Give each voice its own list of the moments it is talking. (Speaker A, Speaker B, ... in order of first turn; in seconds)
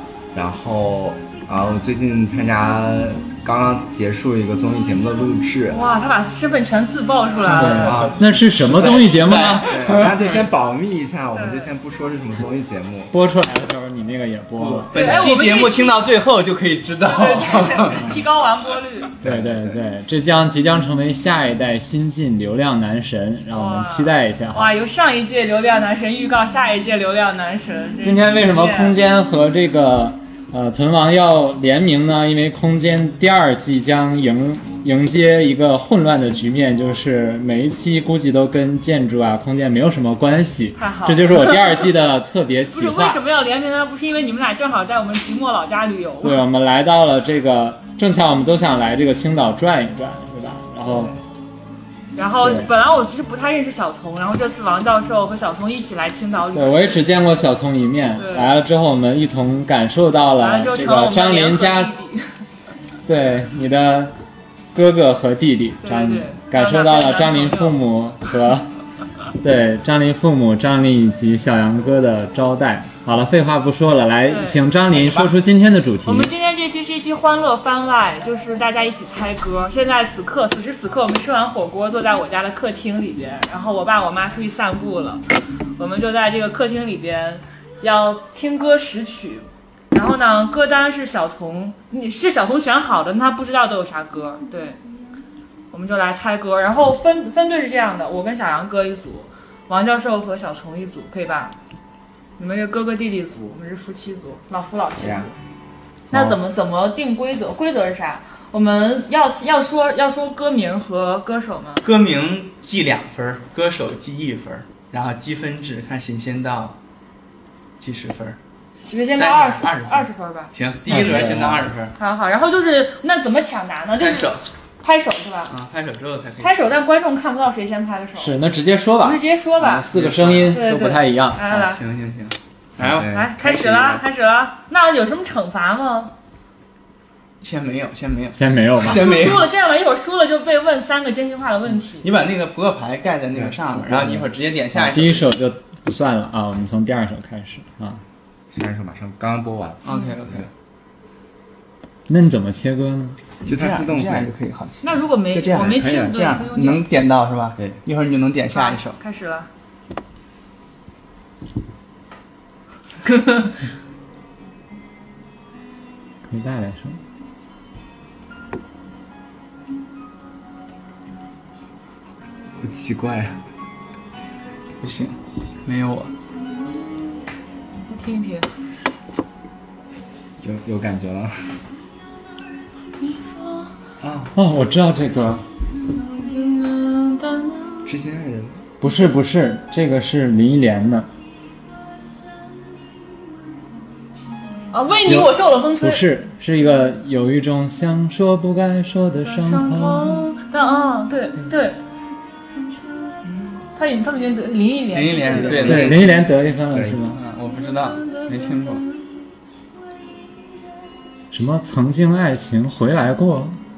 Speaker A: 0.3-5.8, 7.8-13.1, 19.2-19.8, 105.0-105.3, 132.8-134.1, 143.3-144.2, 148.5-150.5, 153.4-154.3, 155.3-156.3, 172.6-173.4, 180.4-181.5, 184.0-184.3, 187.8-188.6, 205.6-207.0
Speaker B: 5.7-8.0, 11.3-11.7, 14.9-16.1, 17.0-19.1, 23.5-29.0, 40.8-41.9, 42.7-46.4, 52.1-57.1, 58.2-58.6, 60.4-62.3, 65.8-67.8, 74.3-74.6, 76.0-85.2, 85.8-94.8, 95.7-101.5, 102.4-105.3, 106.1-111.8, 118.8-120.5, 122.0-125.5, 126.4-128.3, 129.0-129.9, 130.5-131.8, 133.1-136.1, 138.8-142.1, 154.8-156.8, 158.5-159.5, 163.0-163.6, 177.9-178.5, 183.0-183.7, 186.1-187.9, 194.7-196.0, 199.2-201.8, 203.8-205.9, 207.9-208.9
Speaker C: 7.5-10.0, 13.1-15.3, 19.2-24.8, 28.0-43.2, 46.2-51.1, 52.4-52.7, 56.5-61.9, 63.0-64.1, 64.7-68.7, 69.4-76.3, 106.1-106.4, 120.9-121.7, 128.2-131.6, 138.3-139.4, 144.7-148.0, 152.1-153.2, 166.3-167.0, 184.3-185.4, 188.8-191.1, 195.1-200.2, 205.5-207.2, 211.3-213.6
Speaker D: 7.7-10.5, 14.6-18.1, 74.9-75.3, 111.8-116.8, 117.8-118.4, 119.1-121.9, 124.0-124.4, 125.5-126.8, 129.9-130.7, 131.5-133.1, 137.4-139.5, 142.0-145.4, 149.8-150.5, 153.4-154.8, 155.5-159.0, 174.8-176.1, 184.0-184.3, 204.9-206.2, 207.0-208.8